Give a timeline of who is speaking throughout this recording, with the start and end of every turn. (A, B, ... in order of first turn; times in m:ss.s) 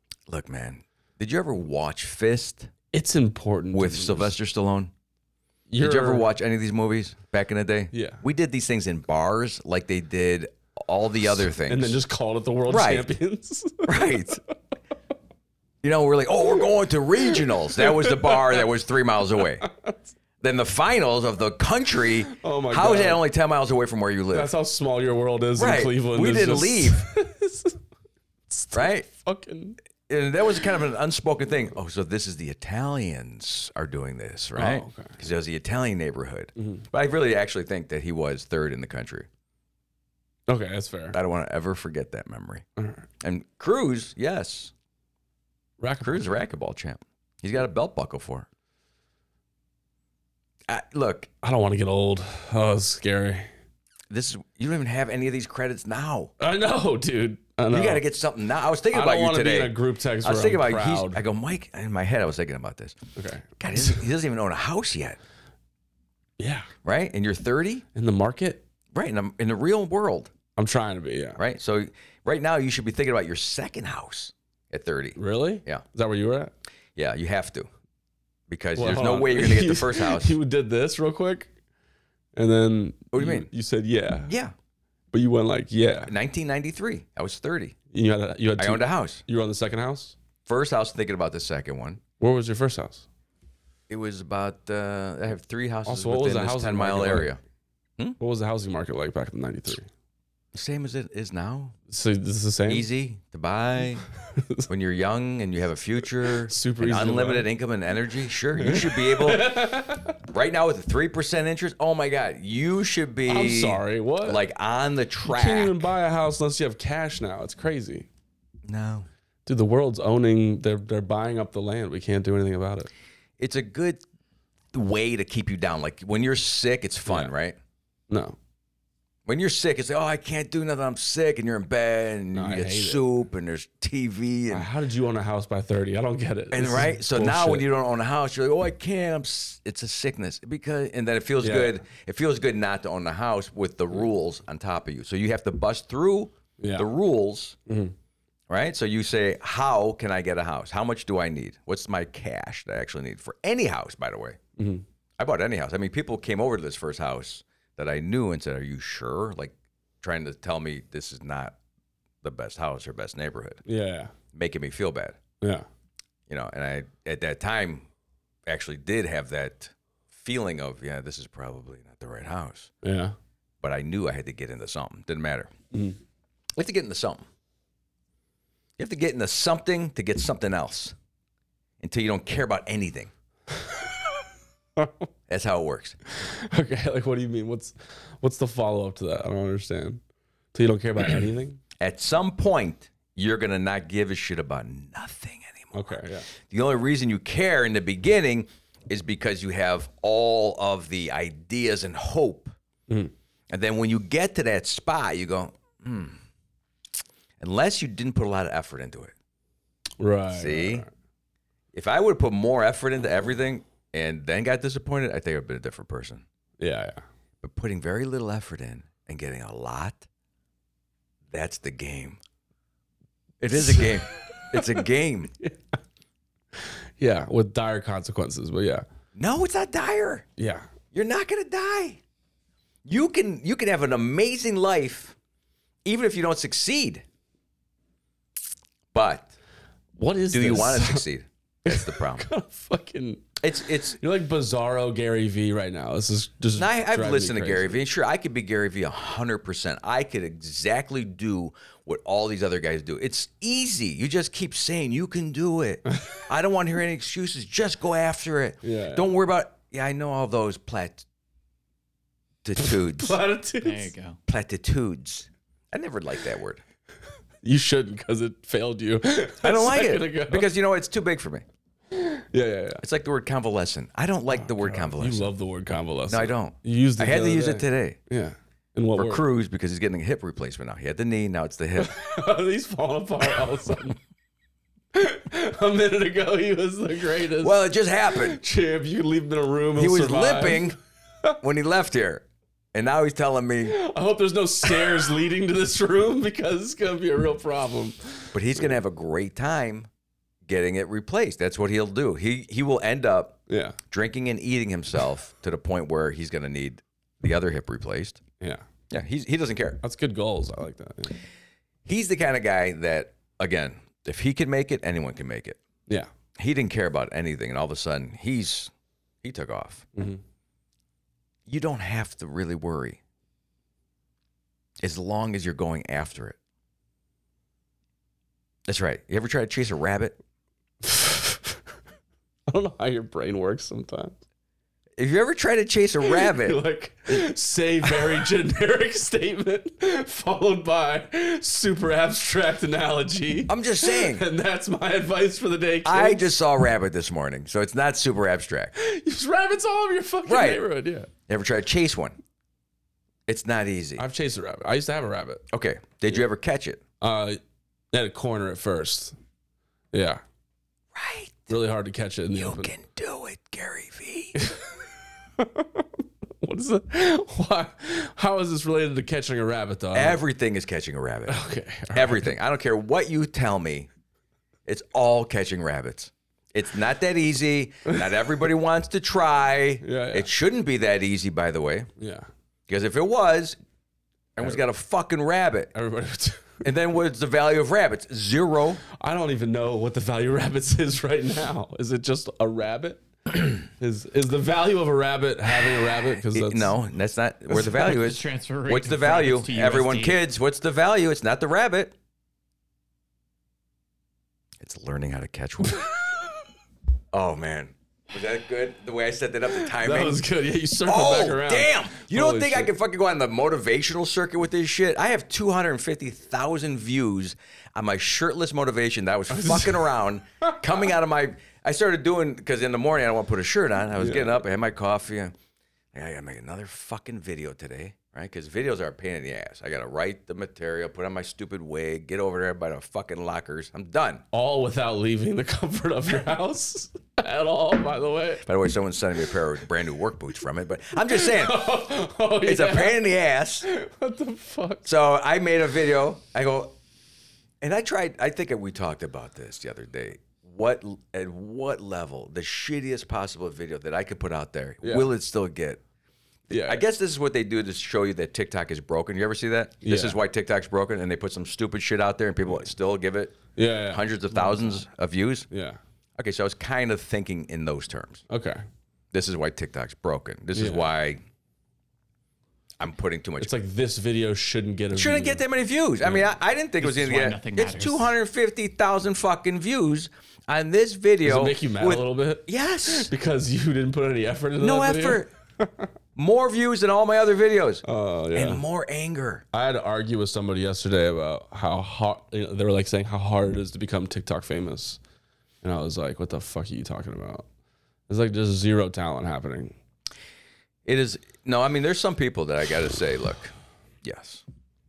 0:00.3-0:02.7 A
0:02.9-0:04.3 B
0:03.7-0:04.9 A
0:05.7-0:06.3 B
0:05.8-0:12.0 A
0:07.9-0:08.2 B
0:11.3-0:14.3 B
0:12.7-0:13.1 A
0:13.8-0:14.4 A
0:15.8-0:19.7 A
0:17.3-0:18.7 B
0:19.4-0:20.0 B
0:20.4-0:24.5 A
0:22.3-0:23.2 B
0:24.3-0:27.8 B
0:25.6-0:27.1 A
0:28.5-0:29.8 B
0:28.7-0:29.1 A
0:30.1-0:39.3 A
0:34.6-0:35.2 B
0:36.6-0:36.8 B
0:40.5-0:41.2 B
0:41.1-0:42.6 A
0:42.8-0:43.0 B
0:43.2-0:44.7 A
0:45.8-0:46.3 B
0:46.0-0:48.5 A
0:50.7-0:51.3 A
0:51.4-0:53.5 B
0:54.1-0:56.3 A
0:56.4-0:58.0 B
0:57.7-1:03.0 A
0:58.9-1:01.2 B
1:03.2-1:04.0 B
1:03.6-1:05.2 A
1:06.4-1:06.7 B
1:06.8-1:07.8 A
1:07.9-1:08.6 B
1:08.9-1:10.3 A
1:10.6-1:11.4 B
1:11.4-1:15.8 A
1:15.2-1:16.5 B
1:17.0-1:17.7 A
1:18.5-1:20.4 A
1:18.8-1:21.5 B
1:22.4-1:24.3 B
1:23.1-1:23.5 A
1:24.3-1:24.5 A
1:25.1-1:26.1 B
1:26.1-1:27.8 A
1:27.9-1:30.2 B
1:28.6-1:29.2 A
1:30.4-1:32.0 A
1:32.2-1:33.0 B
1:33.9-1:37.4 A
1:35.9-1:37.3 B
1:38.2-1:39.9 B
1:40.5-1:41.8 A
1:41.9-1:42.9 B
1:42.7-1:44.0 A
1:44.4-1:44.7 B
1:44.7-1:49.6 A
1:46.2-1:47.5 B
1:48.6-1:50.2 B
1:50.3-1:55.8 A
1:53.2-1:54.4 B
1:55.2-1:58.1 B
1:58.7-1:59.1 A
1:59.5-2:02.9 B
2:03.4-2:04.0 A
2:04.7-2:07.6 A
2:08.1-2:08.4 B
2:09.3-2:14.7 A
2:12.3-2:13.0 B
2:14.5-2:17.7 B
2:16.5-2:27.6 A
2:21.4-2:21.8 B
2:26.6-2:26.9 B
2:27.7-2:28.0 B
2:28.5-2:34.4 A
2:34.6-2:34.8 B
2:35.2-2:41.6 A
2:42.2-2:43.6 A
2:43.6-2:44.1 B
2:44.3-2:45.2 A
2:45.4-2:45.7 B
2:46.3-2:47.9 A
2:48.5-2:52.7 A
2:52.8-2:53.2 B
2:53.6-2:55.5 A
2:55.7-2:56.0 B
2:56.6-2:57.3 A
2:58.8-3:01.0 A
3:01.8-3:03.1 A
3:05.3-3:06.0 A
3:06.1-3:10.0 B
3:10.5-3:11.6 B
3:11.8-3:22.5 A
3:15.7-3:16.3 B
3:22.9-3:23.1 B
3:23.5-3:26.2 A
3:27.4-3:29.1 A
3:30.0-3:30.9 B
3:30.3-3:30.9 A
3:31.7-3:36.2 A
3:36.6-3:37.0 B
3:37.4-3:40.1 A
3:41.3-3:42.2 A
3:43.4-3:45.3 A
3:43.6-3:44.9 B
3:46.5-3:48.8 B
3:49.2-3:50.3 A
3:50.4-3:50.7 B
3:50.9-3:52.0 A
3:52.9-3:55.2 A
3:55.8-3:57.0 A
3:58.9-3:59.3 A
4:00.0-4:01.1 B
4:00.3-4:02.3 A
4:01.7-4:07.8 B
4:03.4-4:04.0 A
4:06.6-4:21.0 A
4:18.6-4:19.1 B
4:22.4-4:23.2 A
4:22.6-4:23.9 B
4:23.6-4:24.2 C
4:24.3-4:26.6 A
4:27.4-4:30.5 B
4:29.4-4:31.4 A
4:31.9-4:32.8 B
4:32.8-4:35.3 A
4:34.4-4:39.2 B
4:36.1-4:38.0 A
4:39.0-4:42.0 A
4:41.8-4:44.0 B
4:44.9-4:50.7 B
4:47.4-4:48.4 A
4:49.8-4:50.8 A
4:51.4-4:53.8 A
4:53.7-4:58.7 B
4:58.3-4:59.9 A
5:00.5-5:03.4 A
5:03.5-5:03.8 B
5:03.9-5:08.2 A
5:08.9-5:09.8 A
5:09.8-5:11.2 B
5:11.9-5:15.6 A
5:16.4-5:18.7 A
5:19.2-5:19.9 A
5:20.0-5:20.2 B
5:21.5-5:23.0 A
5:24.8-5:26.4 A
5:28.7-5:30.2 A
5:30.8-5:31.6 B
5:32.5-5:34.2 B
5:35.0-5:36.6 A
5:36.0-5:46.4 B
5:43.5-5:44.3 A
5:45.8-5:48.7 A
5:48.8-5:51.1 B
5:50.3-5:50.6 A
5:51.3-5:52.2 A
5:53.3-5:54.0 A
5:54.0-5:55.4 B
5:55.5-5:56.8 A
5:57.0-5:57.4 B
5:57.9-5:59.2 B
5:59.9-6:00.2 B
6:01.0-6:01.6 A
6:01.5-6:02.7 B
6:02.4-6:04.4 A
6:04.4-6:10.2 B
6:09.9-6:11.4 A
6:11.3-6:12.4 B
6:11.9-6:13.9 A
6:14.7-6:21.9 A
6:19.8-6:20.3 B
6:22.0-6:22.3 B
6:22.7-6:23.6 A
6:24.4-6:25.7 A
6:25.7-6:26.6 B
6:26.6-6:28.8 A
6:29.0-6:36.8 B
6:36.2-6:41.9 A
6:37.6-6:40.2 C
6:44.6-6:45.9 A
6:47.1-6:50.2 A
6:49.6-6:52.7 B
6:50.8-7:05.3 A
6:59.3-7:00.9 B
7:04.0-7:04.4 B
7:05.9-7:14.2 A
7:14.3-7:18.4 B
7:18.4-7:21.7 A
7:21.0-7:24.9 B
7:22.4-7:23.7 A
7:24.8-7:26.8 A
7:27.6-7:35.8 A
7:34.8-7:35.1 B
7:36.5-7:36.8 B
7:36.5-7:45.5 A
7:39.8-7:40.2 B
7:43.6-7:44.8 B
7:45.5-7:45.8 B
7:46.2-7:48.2 A
7:48.3-7:48.6 B
7:49.1-7:51.2 A
7:50.6-7:50.9 B
7:52.8-7:53.5 A
7:53.4-7:55.4 B
7:54.9-8:03.1 A
7:56.8-7:58.1 C
8:01.2-8:05.9 B
8:04.6-8:05.3 A
8:06.2-8:09.4 A
8:07.8-8:08.6 B
8:09.5-8:15.0 B
8:15.6-8:17.5 B
8:18.1-8:19.8 B
8:20.9-8:24.4 A